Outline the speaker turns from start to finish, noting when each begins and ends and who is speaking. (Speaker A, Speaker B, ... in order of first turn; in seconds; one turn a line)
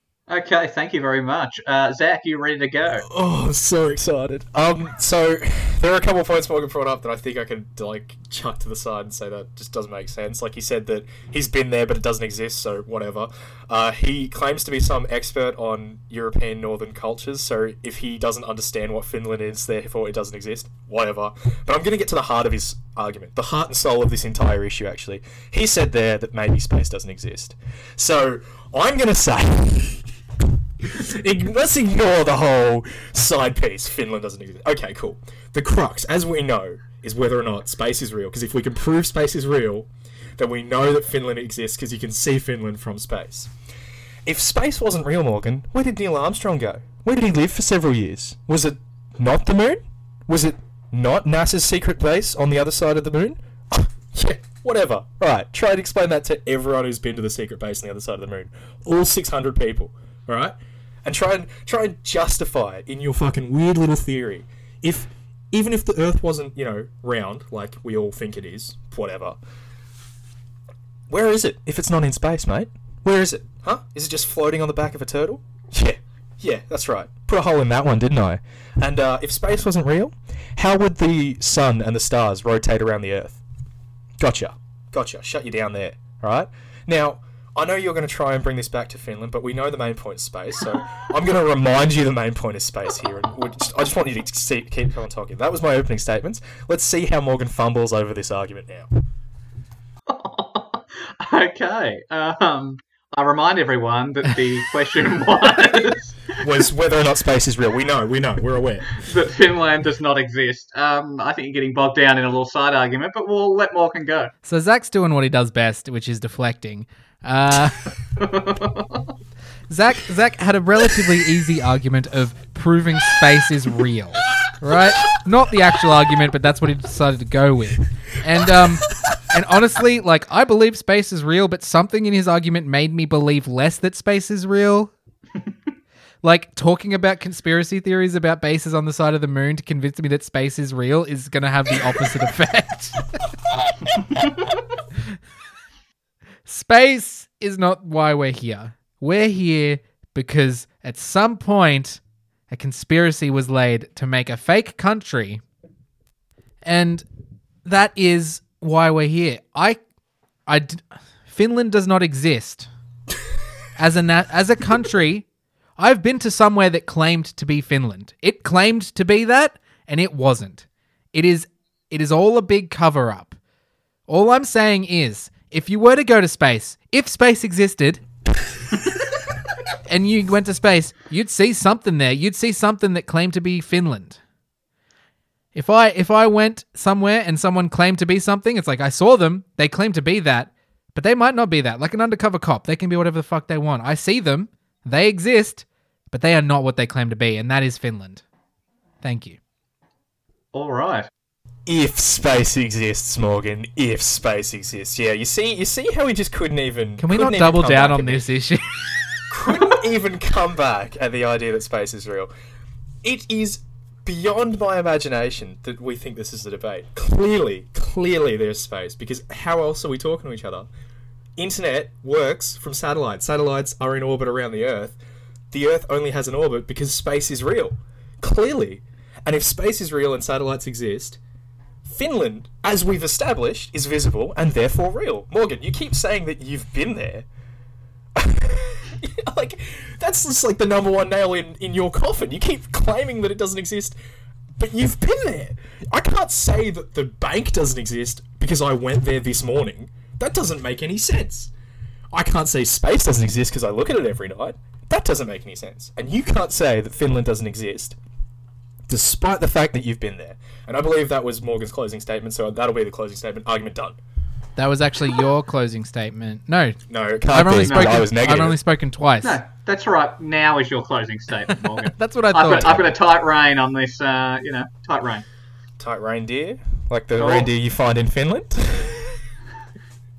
Speaker A: 0.3-3.0
Speaker B: 3.0-30.1
Speaker B: 30.8-43.5
Speaker B: 44.2-69.4
Speaker B: 71.1-83.4
Speaker B: 84.2-98.9
Speaker A: 100.1-106.4
Speaker B: 106.4-109.0
Speaker A: 109.0-114.3
Speaker C: 114.5-117.9
Speaker A: 118.2-119.1
Speaker C: 119.7-134.9
Speaker C: 136.2-144.3
Speaker C: 146.5-155.4
Speaker C: 156.6-157.0
Speaker C: 157.6-159.8
Speaker C: 160.5-162.7
Speaker C: 163.8-165.2
Speaker C: 165.8-173.4
Speaker C: 174.1-178.0
Speaker C: 179.9-184.2
Speaker C: 185.5-198.2
Speaker C: 199.0-199.4
Speaker A: 200.5-201.1
Speaker B: 201.7-208.2
Speaker C: 207.0-209.0
Speaker B: 209.3-212.3
Speaker B: 213.0-220.7
Speaker B: 221.4-224.9
Speaker B: 225.5-231.2
Speaker B: 231.8-237.2
Speaker B: 238.1-243.9
Speaker B: 244.6-251.5
Speaker B: 252.1-258.0
Speaker B: 258.9-264.0
Speaker C: 264.6-269.4
Speaker B: 266.9-268.6
Speaker A: 267.7-268.0
Speaker A: 269.2-275.2
Speaker C: 271.9-272.9
Speaker B: 275.8-279.2
Speaker A: 277.2-277.5